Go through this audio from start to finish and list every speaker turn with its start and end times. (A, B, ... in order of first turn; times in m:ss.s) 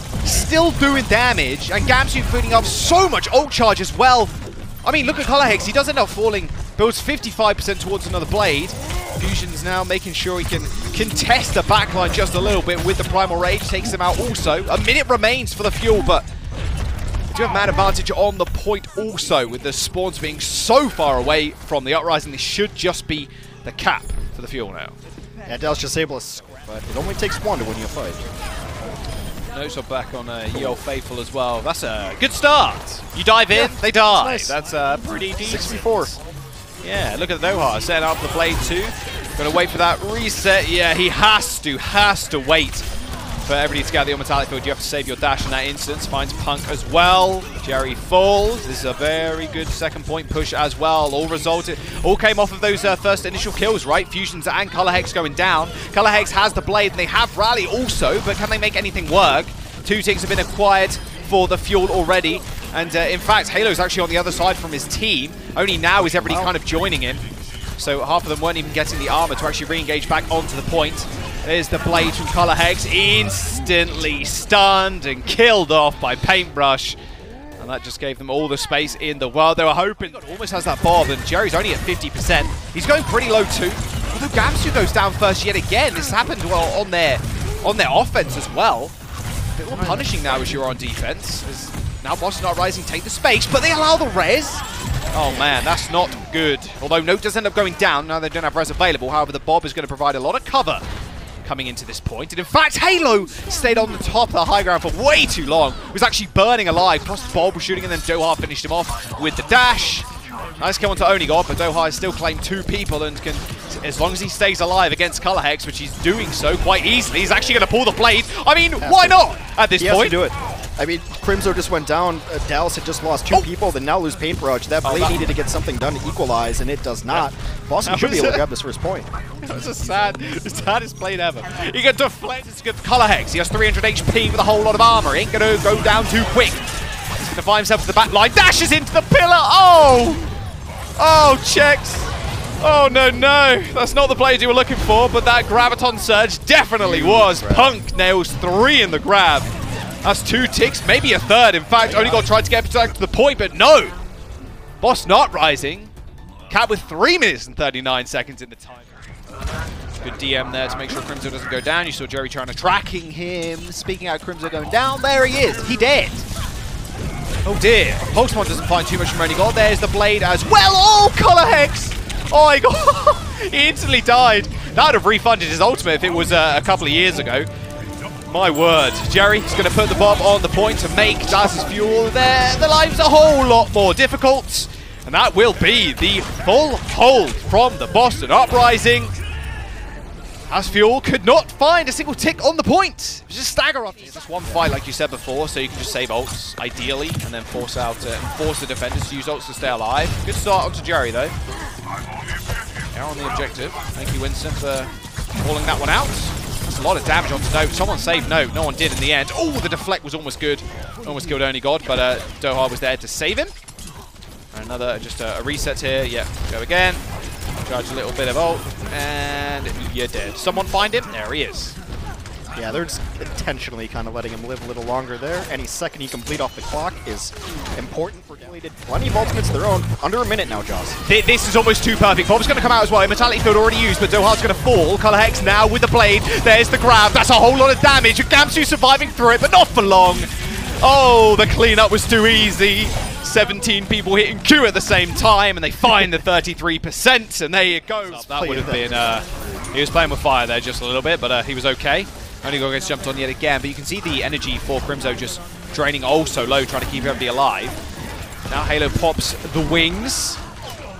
0:00.2-0:16.2 A
0:17.3-0:24.9 A
0:25.4-0:28.2 B
0:29.5-0:36.2 A
0:33.5-0:34.6 B
0:35.4-0:36.1 B
0:36.8-0:42.8 A
0:43.5-1:07.2 A
1:06.0-1:06.5 B
1:07.8-1:17.0 A
1:17.6-1:28.9 A
1:29.6-1:40.8 A
1:41.4-1:50.1 A
1:50.6-2:00.2 A
1:58.8-1:59.2 B
1:59.8-2:09.1 B
2:04.8-2:05.3 A
2:07.8-2:08.4 A
2:09.4-2:20.2 A
2:21.0-2:29.5 A
2:26.8-2:27.8 B
2:30.0-2:34.0 A
2:31.8-2:32.3 B
2:34.8-2:35.9 A
2:36.5-2:38.9 A
2:40.0-2:46.2 A
2:47.4-2:57.5 A
2:58.2-3:09.2 A
3:10.5-3:21.3 A
3:22.9-3:33.5 A
3:34.5-3:37.0 A
3:37.6-3:41.8 A
3:42.5-3:51.0 B
3:51.0-4:17.8 A
4:08.0-4:09.2 B
4:18.5-4:20.4 A